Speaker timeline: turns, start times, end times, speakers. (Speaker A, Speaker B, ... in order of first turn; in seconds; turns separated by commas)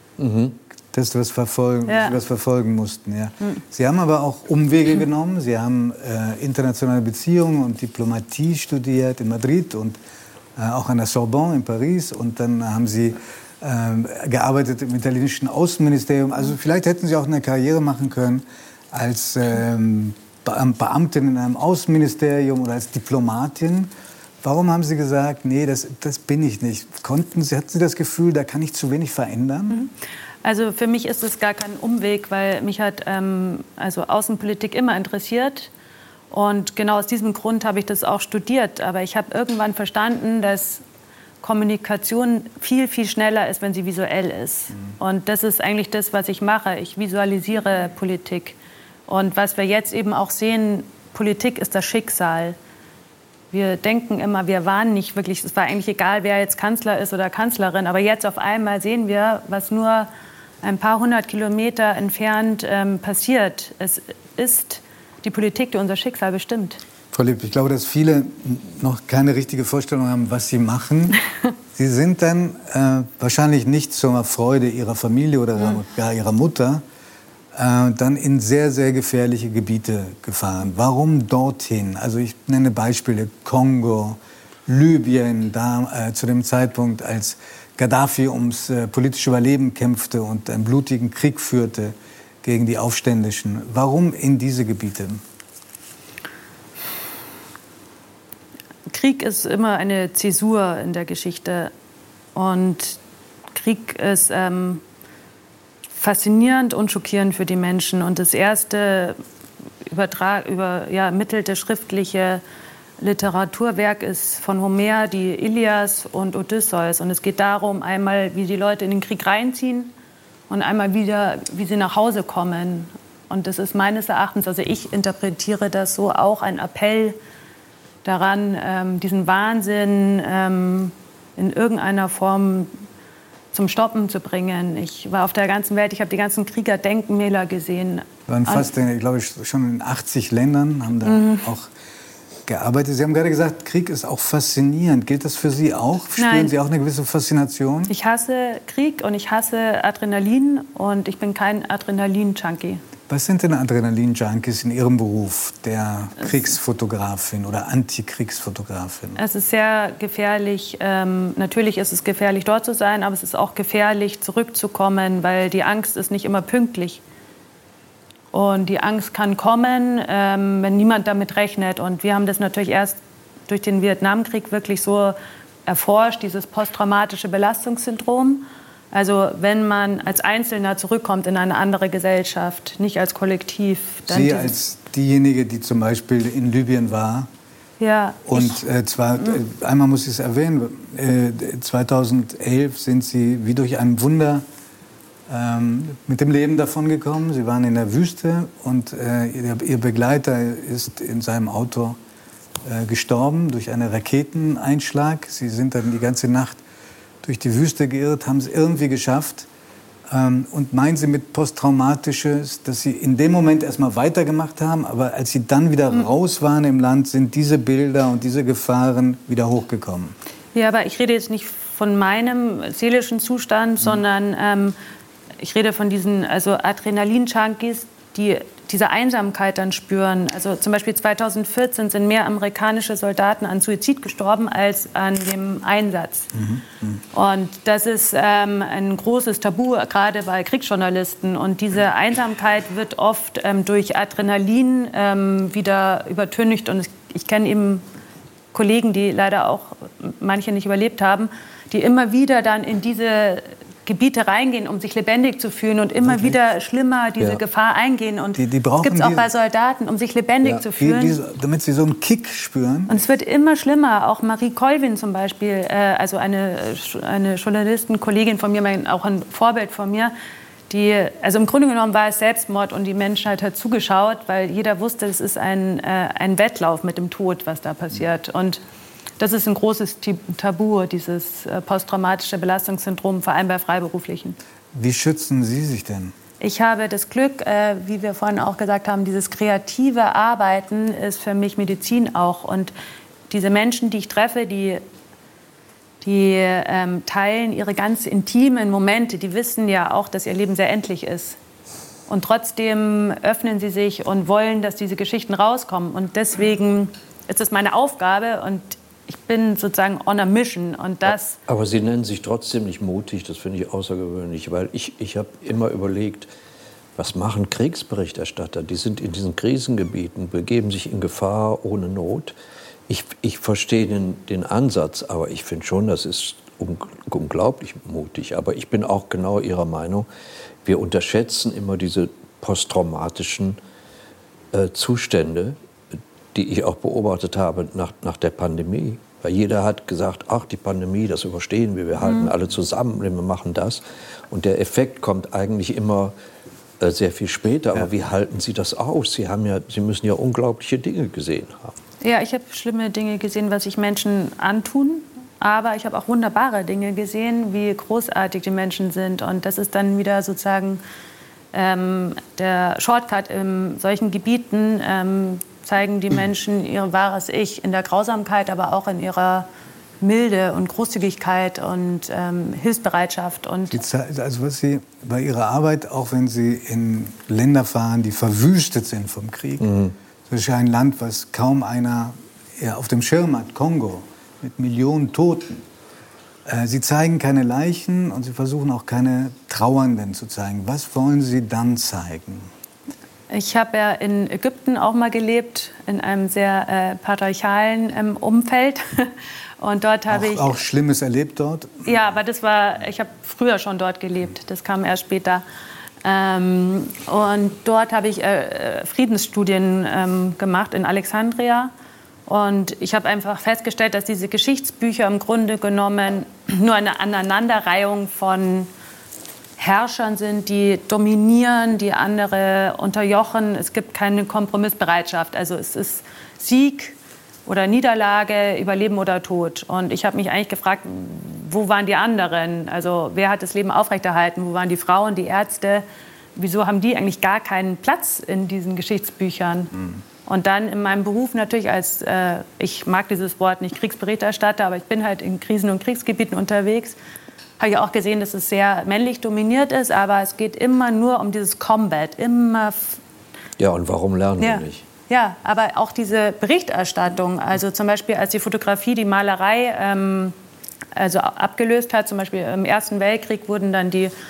Speaker A: 0.2-0.6, Speaker B: 0.9-10.0, Speaker C: 1.9-2.2, Speaker B: 10.6-23.9, Speaker B: 24.4-29.8, Speaker C: 30.4-35.7, Speaker C: 36.3-40.8, Speaker C: 41.4-48.5, Speaker C: 49.1-52.5, Speaker C: 53.5-60.1, Speaker C: 60.6-66.8, Speaker B: 67.1-71.2, Speaker B: 71.7-76.8, Speaker B: 77.5-95.2, Speaker C: 98.9-101.7, Speaker C: 102.3-103.0, Speaker C: 103.5-104.8, Speaker C: 106.0-109.2, Speaker C: 109.8-112.4, Speaker C: 113.0-119.9, Speaker C: 120.5-127.2, Speaker C: 128.0-132.7, Speaker C: 133.5-138.7, Speaker B: 138.3-141.7, Speaker C: 141.0-141.4, Speaker B: 142.5-147.9, Speaker C: 146.2-146.5, Speaker C: 147.9-152.8, Speaker B: 153.1-159.2, Speaker C: 159.2-167.0, Speaker C: 168.3-184.5, Speaker B: 184.1-187.3, Speaker C: 187.8-188.6, Speaker B: 188.2-194.4, Speaker B: 195.3-202.0, Speaker B: 202.6-206.6, Speaker B: 207.2-209.5, Speaker B: 210.1-220.1, Speaker C: 220.5-224.8, Speaker C: 225.4-236.3, Speaker B: 236.3-237.0, Speaker C: 237.1-247.8, Speaker C: 248.5-261.1, Speaker B: 256.0-256.4, Speaker B: 258.3-259.3, Speaker B: 260.4-262.9, Speaker C: 262.9-270.1, Speaker C: 270.7-278.6, Speaker C: 279.2-284.4, Speaker B: 284.7-286.1, Speaker C: 286.4-292.7, Speaker C: 293.3-294.8, Speaker C: 296.0-301.4, Speaker C: 302.1-311.4, Speaker A: 311.5-316.3, Speaker A: 317.0-322.3, Speaker A: 322.9-330.1, Speaker A: 330.6-333.6, Speaker A: 334.5-335.6, Speaker A: 336.3-346.1, Speaker C: 342.0-342.3, Speaker A: 346.8-351.7, Speaker C: 352.0-360.8, Speaker C: 361.5-369.5, Speaker C: 370.0-373.8, Speaker B: 373.7-379.8, Speaker A: 379.6-379.9, Speaker B: 380.3-385.6, Speaker B: 386.4-392.5, Speaker C: 393.3-400.6, Speaker B: 400.1-401.9, Speaker C: 401.8-405.4, Speaker C: 406.0-411.7, Speaker C: 412.3-418.7, Speaker C: 419.6-435.8, Speaker C: 436.4-439.7, Speaker C: 440.2-446.9, Speaker C: 447.6-453.0, Speaker A: 453.6-454.8, Speaker C: 454.4-460.3, Speaker C: 460.9-464.1